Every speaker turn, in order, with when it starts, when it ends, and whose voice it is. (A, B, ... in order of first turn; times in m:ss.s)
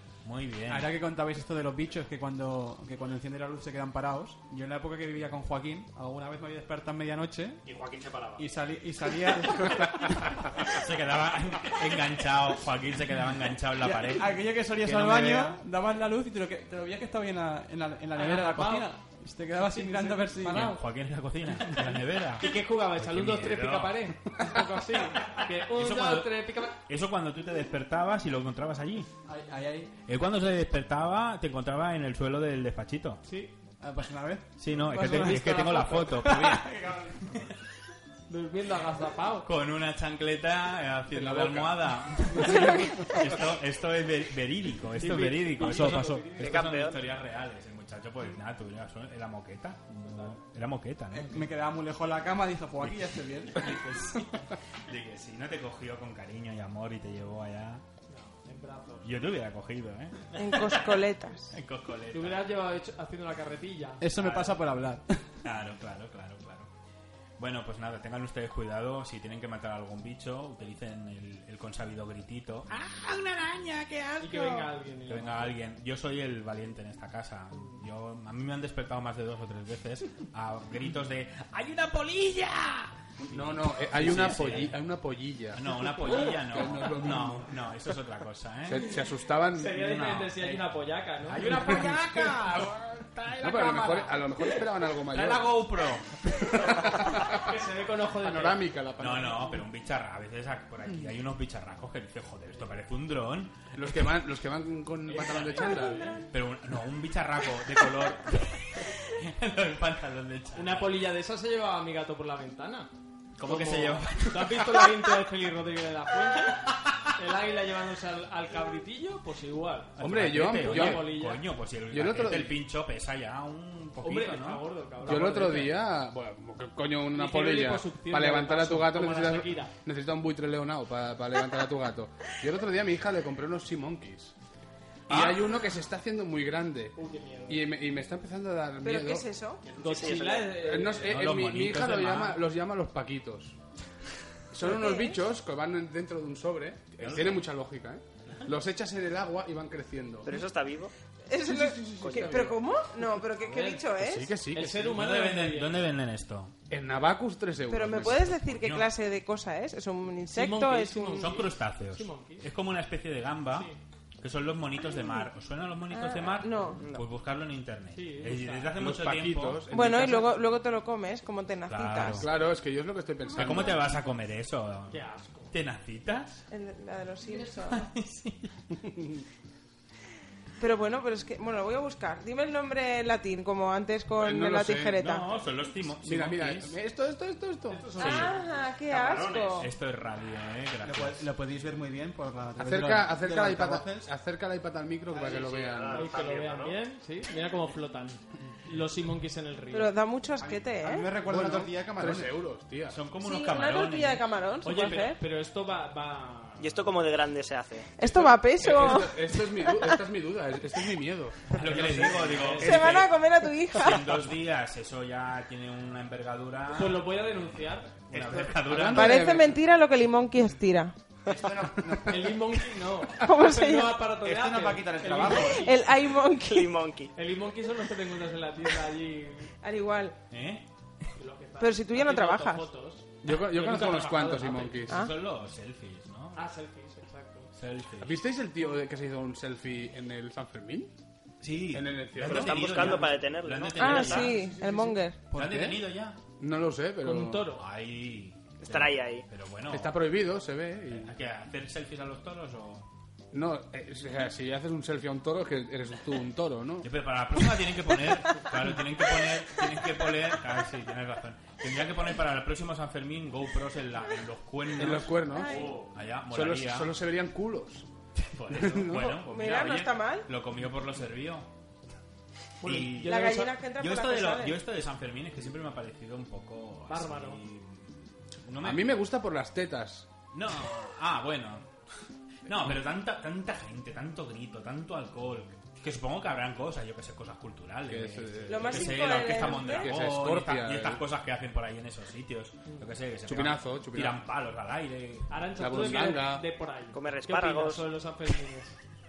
0:00.2-0:00.9 A
0:00.7-0:07.6 B
0:07.6-0:08.5 C
0:08.4-0:10.4 B
0:10.6-0:15.5 A
0:13.8-0:20.8 B
0:18.1-0:18.9 D
0:19.6-0:20.5 D
0:20.4-0:24.1 A
0:22.4-0:26.8 D
0:25.3-0:29.1 A
0:29.2-0:29.9 B
0:30.1-0:33.2 A
0:33.2-0:33.5 D
0:33.8-0:37.4 B
0:34.6-0:36.7 A
0:35.0-0:36.0 D
0:38.3-0:39.5 D
0:39.4-0:51.5 A
0:41.1-0:42.7 E
0:45.0-0:46.6 D
0:46.4-0:47.0 F
0:50.0-0:50.4 D
0:51.1-0:53.8 B
0:53.5-0:57.8 A
0:58.1-0:59.1 D
0:59.0-1:01.0 A
1:00.3-1:01.5 G
1:01.5-1:02.5 A
1:02.1-1:04.0 D
1:04.0-1:05.2 B
1:04.2-1:04.6 A
1:05.4-1:06.7 A
1:07.4-1:24.8 A
1:14.2-1:15.6 D
1:17.6-1:17.8 D
1:23.2-1:27.5 E
1:25.5-1:28.9 A
1:26.0-1:26.4 D
1:28.7-1:29.8 E
1:29.5-1:31.9 D
1:29.6-1:37.0 A
1:31.7-1:32.0 E
1:33.4-1:35.6 E
1:36.5-1:38.7 D
1:36.6-1:37.4 E
1:38.2-1:39.6 E
1:39.0-1:43.8 A
1:43.7-1:46.0 E
1:45.1-1:46.2 D
1:46.3-1:51.0 A
1:50.5-2:01.5 D
1:53.4-1:55.1 A
2:00.0-2:05.3 A
2:00.0-2:01.1 E
2:01.9-2:02.6 E
2:04.0-2:05.8 D
2:05.0-2:14.3 E
2:07.1-2:09.7 D
2:15.1-2:15.4 A
2:15.1-2:19.3 E
2:16.9-2:17.6 D
2:18.8-2:19.6 G
2:19.6-2:20.4 C
2:19.7-2:21.2 D
2:19.8-2:20.5 F
2:20.5-2:23.6 E
2:21.0-2:22.4 A
2:24.5-2:30.4 E
2:24.6-2:25.2 G
2:27.0-2:27.4 A
2:30.2-2:30.9 F
2:31.3-2:34.3 G
2:31.4-2:32.6 E
2:32.0-2:32.4 F
2:34.0-2:35.0 E
2:34.5-2:35.8 D
2:34.8-2:36.5 A
2:36.7-2:38.4 E
2:37.7-2:41.3 G
2:38.0-2:38.9 A
2:40.3-2:42.5 D
2:41.2-2:49.6 A
2:43.5-2:43.8 D
2:45.9-2:46.8 G
2:47.9-2:48.8 D
2:48.8-2:50.3 E
2:49.7-2:52.2 G
2:51.7-2:52.3 A
2:52.1-2:53.9 E
2:53.3-2:56.4 A
2:54.9-2:55.5 D
2:56.5-2:57.8 G
2:57.6-2:58.5 A
3:00.6-3:05.3 G
3:04.2-3:05.0 E
3:05.0-3:06.8 A
3:06.0-3:07.9 E
3:07.7-3:08.4 D
3:08.0-3:09.7 G
3:08.0-3:08.3 A
3:08.9-3:09.7 C
3:09.6-3:11.3 A
3:10.8-3:14.1 B
3:12.6-3:16.2 E
3:15.1-3:16.8 C
3:15.8-3:19.9 D
3:19.7-3:21.1 G
3:20.4-3:22.3 B
3:21.2-3:23.0 E
3:22.9-3:24.2 A
3:23.2-3:25.2 G
3:24.6-3:26.8 D
3:26.6-3:27.9 F
3:28.0-3:29.8 G
3:28.0-3:32.5 E
3:31.5-3:33.2 A
3:31.6-3:33.0 D
3:32.6-3:34.0 G
3:33.7-3:37.2 A
3:36.7-3:38.6 D
3:38.1-3:39.2 A
3:38.7-3:39.6 E
3:38.9-3:40.9 G
3:41.3-3:42.4 B
3:42.0-3:45.8 D
3:43.2-3:44.0 G
3:44.2-3:45.7 B
3:45.3-3:46.7 G
3:46.4-3:47.1 F
3:47.1-3:49.5 D
3:49.6-3:50.2 G
3:50.3-3:50.6 A
3:51.2-3:54.9 D
3:51.6-3:52.7 G
3:53.2-3:55.0 E
3:54.8-3:56.5 A
3:56.3-3:57.5 D
3:57.5-3:58.2 A
3:58.0-4:00.9 E
4:01.4-4:04.4 A
4:01.7-4:02.8 E
4:02.2-4:04.0 F
4:02.7-4:03.2 D
4:03.8-4:04.3 D
4:03.8-4:05.2 G
4:05.3-4:06.2 A
4:05.3-4:05.8 E
4:06.4-4:07.5 E
4:07.0-4:07.6 D
4:07.6-4:10.0 A
4:08.6-4:09.2 F
4:09.7-4:11.1 E
4:10.9-4:12.9 A
4:13.3-4:16.9 E
4:16.8-4:25.2 A
4:24.8-4:25.7 E
4:25.3-4:25.8 G
4:25.4-4:25.9 C
4:25.9-4:26.9 A
4:26.3-4:27.9 E
4:28.2-4:31.5 A
4:28.5-4:29.2 E
4:29.3-4:30.2 G
4:32.6-4:33.5 D
4:32.6-4:38.9 A
4:33.0-4:34.6 G
4:36.9-4:37.4 D
4:38.6-4:40.1 E
4:40.3-4:41.7 A
4:42.4-4:56.1 A
4:47.9-4:51.0 E
4:48.5-4:49.9 G
4:53.2-4:54.2 E
4:55.3-4:58.8 D
4:55.6-4:56.4 E
4:56.9-4:57.9 F